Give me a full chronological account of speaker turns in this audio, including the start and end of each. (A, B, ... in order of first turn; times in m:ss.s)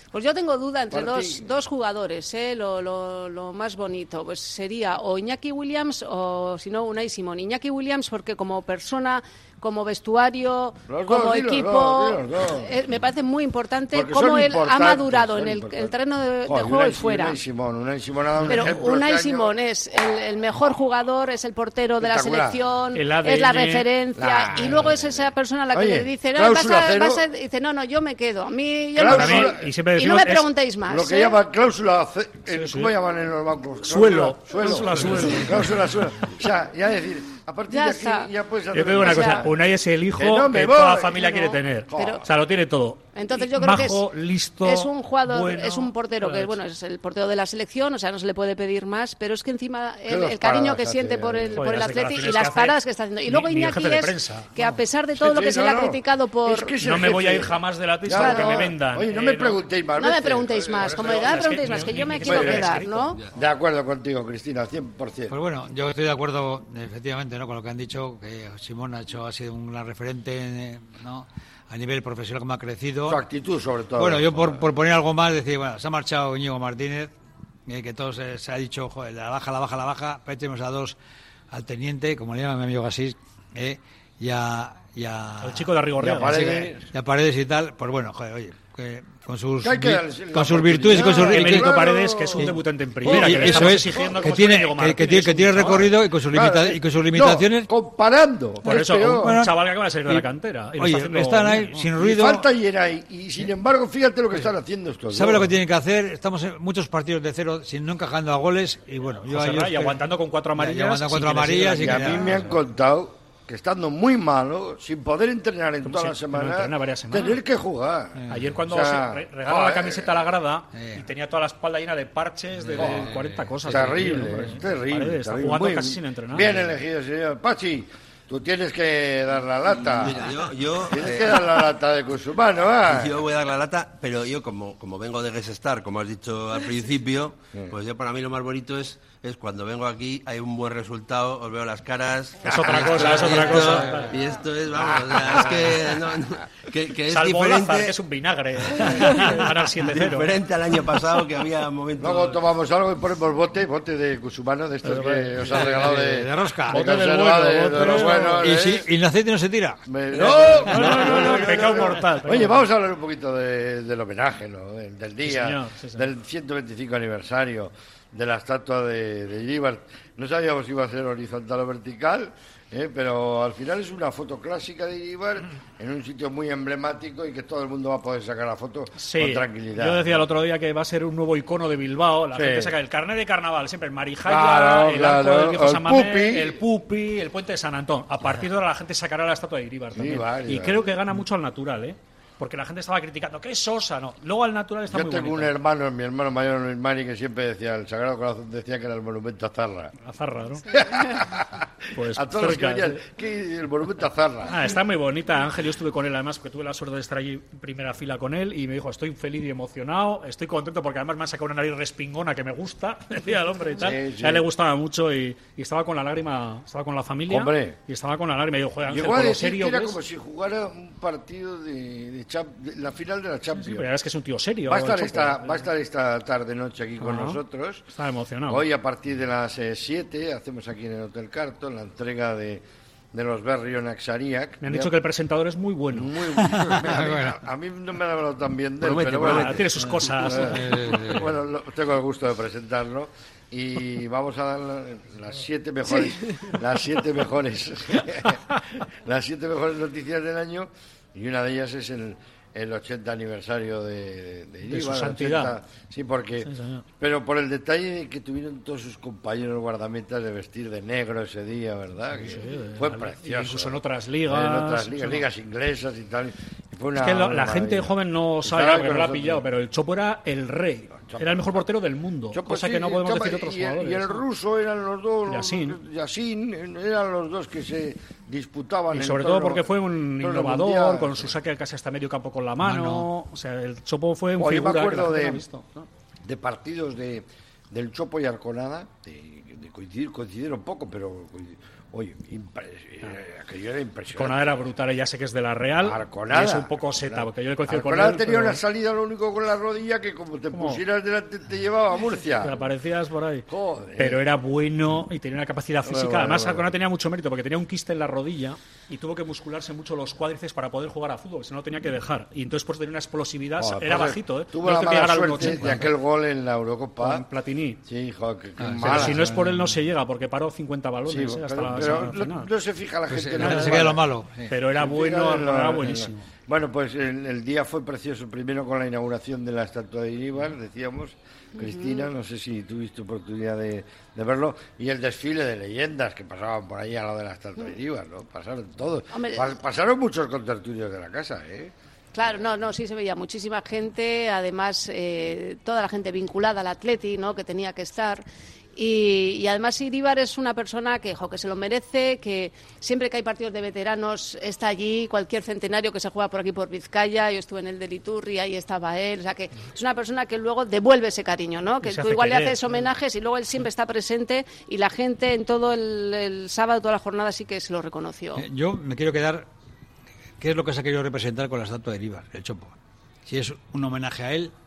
0:00.1-0:17.4 A
0:00.9-0:01.5 B
0:10.9-0:12.7 B
0:13.9-0:19.6 B
0:18.5-0:31.4 A
0:22.0-0:22.6 B
0:22.9-0:23.9 C
0:24.2-0:27.2 B
0:29.0-0:29.7 B
0:29.1-0:30.5 C
0:30.9-0:39.6 B
0:32.5-0:33.0 C
0:33.9-0:35.8 C
0:37.7-0:38.3 A
0:38.7-0:46.6 C
0:39.0-0:39.4 A
0:40.2-0:42.2 B
0:41.1-0:42.2 A
0:43.2-0:44.1 A
0:44.6-0:56.8 A
0:50.1-0:52.0 B
0:51.6-0:54.8 C
0:55.2-1:05.4 B
0:56.8-0:59.6 C
0:58.1-0:58.7 A
1:00.0-1:03.2 A
1:00.8-1:03.2 C
1:05.3-1:13.2 D
1:13.1-1:14.6 B
1:14.0-1:17.1 D
1:17.7-1:21.0 D
1:21.5-1:37.7 D
1:25.4-1:26.4 C
1:26.0-1:26.9 B
1:29.6-1:34.2 B
1:30.9-1:35.9 C
1:36.3-1:39.4 B
1:38.6-1:41.9 C
1:38.7-1:42.5 D
1:42.0-1:45.6 B
1:45.1-1:50.0 D
1:49.3-1:52.4 C
1:50.6-1:52.6 D
1:51.8-2:00.1 B
1:55.8-1:57.4 C
1:58.2-1:58.5 D
1:58.3-2:06.5 C
2:00.8-2:01.0 D
2:02.6-2:04.5 D
2:02.8-2:03.1 B
2:03.6-2:10.2 B
2:09.9-2:11.6 E
2:10.9-2:13.2 B
2:12.9-2:28.0 E
2:22.4-2:24.2 C
2:22.5-2:22.8 B
2:24.9-2:25.5 B
2:27.1-2:30.4 C
2:29.0-2:29.3 E
2:29.8-2:32.4 E
2:32.0-2:38.9 B
2:34.8-2:35.5 C
2:35.5-2:36.9 D
2:36.7-2:38.5 C
2:37.7-2:39.8 D
2:39.9-3:00.2 B
2:40.3-2:42.6 C
2:40.7-2:41.2 D
2:45.2-2:46.1 C
2:59.0-3:15.5 C
3:02.3-3:02.7 B
3:04.3-3:06.6 B
3:10.0-3:10.8 B
3:14.9-3:19.9 B
3:20.0-3:20.7 C
3:20.7-3:24.6 B
3:22.0-3:23.0 C
3:24.5-3:40.0 C
3:33.8-3:34.5 B
3:37.3-3:37.8 B
3:38.9-3:43.9 B
3:43.6-3:45.7 C
3:44.7-3:47.8 B
3:47.0-3:48.6 C
3:48.5-3:54.9 B
3:54.6-3:56.1 C
3:55.9-3:59.6 B
3:56.4-3:57.4 D
3:58.8-3:59.7 E
3:59.2-4:00.7 C
4:00.2-4:08.4 B
4:00.5-4:01.3 D
4:09.0-4:16.5 B
4:14.7-4:15.6 C
4:16.5-4:16.8 C
4:17.0-4:27.9 B
4:22.2-4:25.2 C
4:27.0-4:34.2 C
4:28.4-4:29.4 B
4:31.0-4:31.6 B
4:32.3-4:39.7 B
4:35.3-4:35.8 C
4:38.9-4:45.9 C
4:40.2-4:41.3 B
4:42.6-4:43.1 D
4:44.4-4:45.4 B
4:46.2-4:54.5 B
4:54.2-4:58.6 C
4:55.8-5:02.6 B
5:00.5-5:00.8 C
5:02.4-5:03.5 C
5:03.5-5:04.2 B
5:04.0-5:15.9 C
5:05.8-5:06.7 B
5:13.6-5:17.2 B
5:15.4-5:15.9 D
5:17.0-5:17.8 C
5:17.9-5:19.3 B
5:18.6-5:19.8 D
5:18.8-5:22.5 C
5:21.1-5:24.0 B
5:21.8-5:22.1 D
5:23.1-5:24.5 D
5:23.4-5:24.0 C
5:24.5-5:26.3 C
5:24.8-5:41.7 B
5:31.6-5:32.1 A
5:39.1-5:39.4 A
5:42.1-5:48.2 A
5:48.8-6:08.5 A
6:01.8-6:02.9 C
6:08.4-6:09.5 D
6:10.4-6:14.5 D